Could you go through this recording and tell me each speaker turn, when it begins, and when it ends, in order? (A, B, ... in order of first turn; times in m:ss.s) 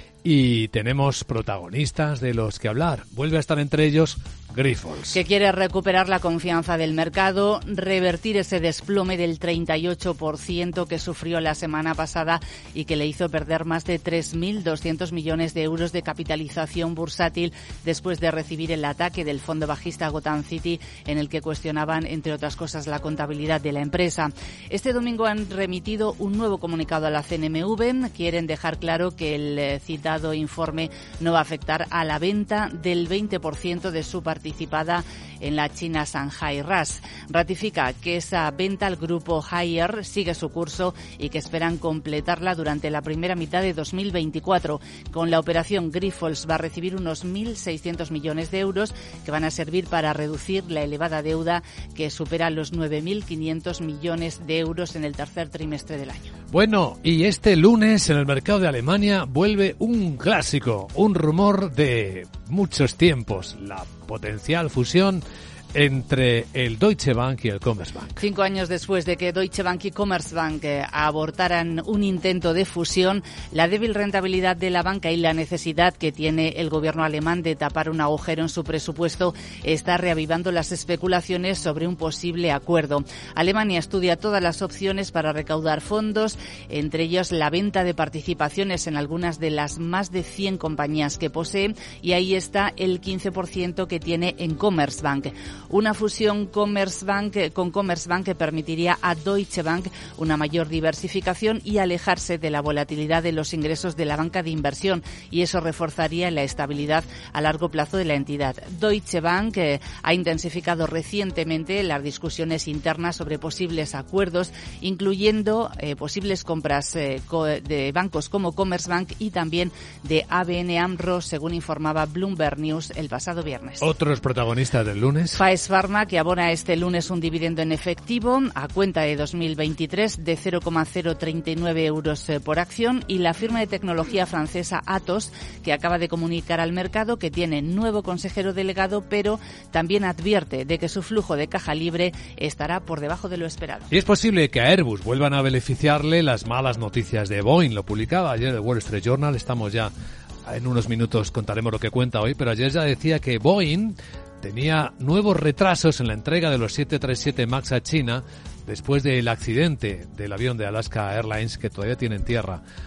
0:00.2-0:05.2 A
0:05.1-0:56.3 B
0:56.5-1:08.2 A
1:08.2-2:03.9 B
2:03.8-2:05.4 A
2:05.4-2:23.9 B
2:23.9-2:29.9 A
2:30.5-2:42.6 A